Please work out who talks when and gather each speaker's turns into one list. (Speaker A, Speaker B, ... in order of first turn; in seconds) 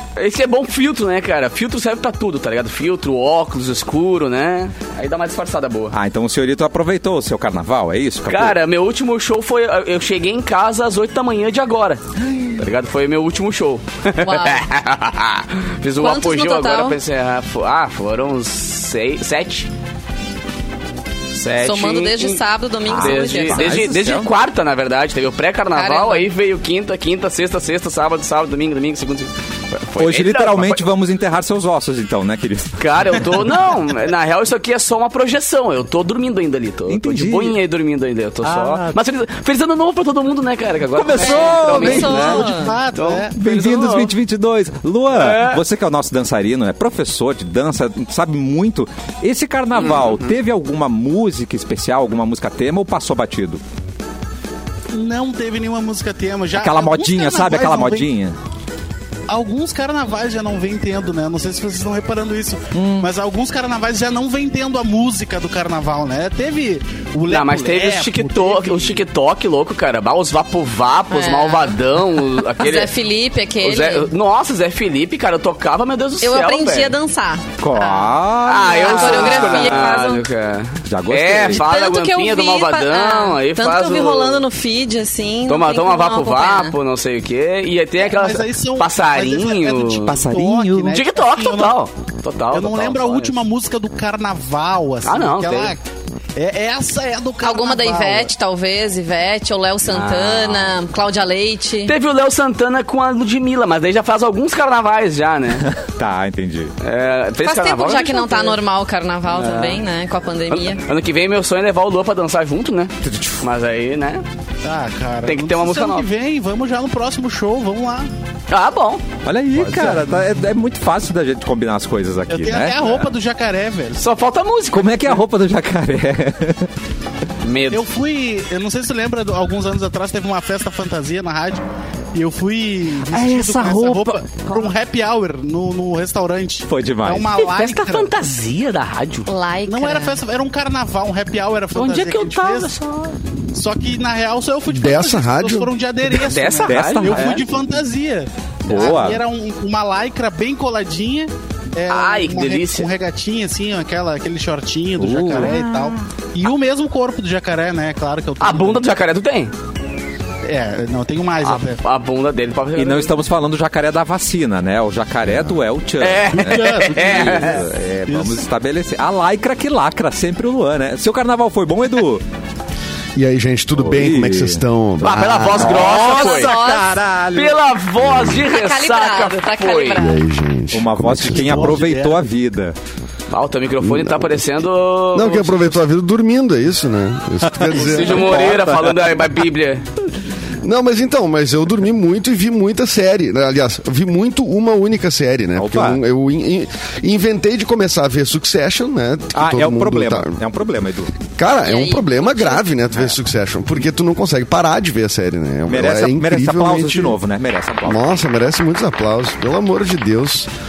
Speaker A: 0.2-6.0, 8.3-12.0, 12.6-19.7, 21.3-30.9, 32.8-44.1, 45.1-45.6, 67.3-72.9, 73.6-77.0, 78.5-84.4, 85.5-90.1, 90.9-93.4, 95.0-95.7, 99.9-100.7, 101.9-105.7, 106.8-108.6, 109.3-109.8, 110.5-114.2, 115.2-116.1, 118.5-119.0, 124.0-125.2, 127.4-127.9, 137.4-139.3, 141.8-143.1, 146.1-147.4, 151.9-152.9, 158.4-159.5, 161.4-163.1, 166.0-167.6, 175.0-176.6, 177.4-180.0, 183.3-185.8, 187.7-189.8
Speaker B: 5.9-8.6, 22.9-24.3, 30.0-32.8, 36.9-37.6, 38.4-39.0, 40.9-42.5, 43.3-53.6, 56.5-58.4, 62.7-63.1, 77.6-79.9, 80.9-81.6, 90.0-91.0, 105.6-106.7, 113.0-113.4, 119.2-123.0, 124.7-126.7, 133.1-134.3, 136.7-137.3, 141.8-142.7, 146.6-147.4, 148.7-149.2, 155.0-155.9, 162.8-172.2, 173.8-174.6, 175.6-177.6, 180.7-182.8, 187.4-189.0, 195.6-196.0, 199.3-201.1, 205.7-208.0
Speaker C: 14.2-14.6, 16.0-17.0, 21.6-23.9, 25.7-26.3, 41.2-42.7, 71.1-71.8, 72.6-74.1, 76.2-78.2, 78.7-80.2, 81.5-86.8, 97.4-101.9, 107.4-110.8, 139.3-140.2, 175.9-177.0, 178.5-180.2, 201.6-202.7
Speaker D: 41.7-43.3, 54.9-58.1, 59.3-69.0, 88.0-91.8, 92.5-95.8, 96.4-98.3, 114.7-118.1, 119.6-120.1, 122.3-124.0, 127.7-131.6, 132.2-138.1, 139.7-142.7, 143.5-158.9, 160.4-161.8, 166.3-168.4, 181.3-182.2
Speaker E: 144.7-145.7, 173.2-175.9, 178.0-178.4, 179.9-181.8, 183.8-184.4, 185.1-188.3, 190.6-200.4, 201.4-207.2, 207.9-210.5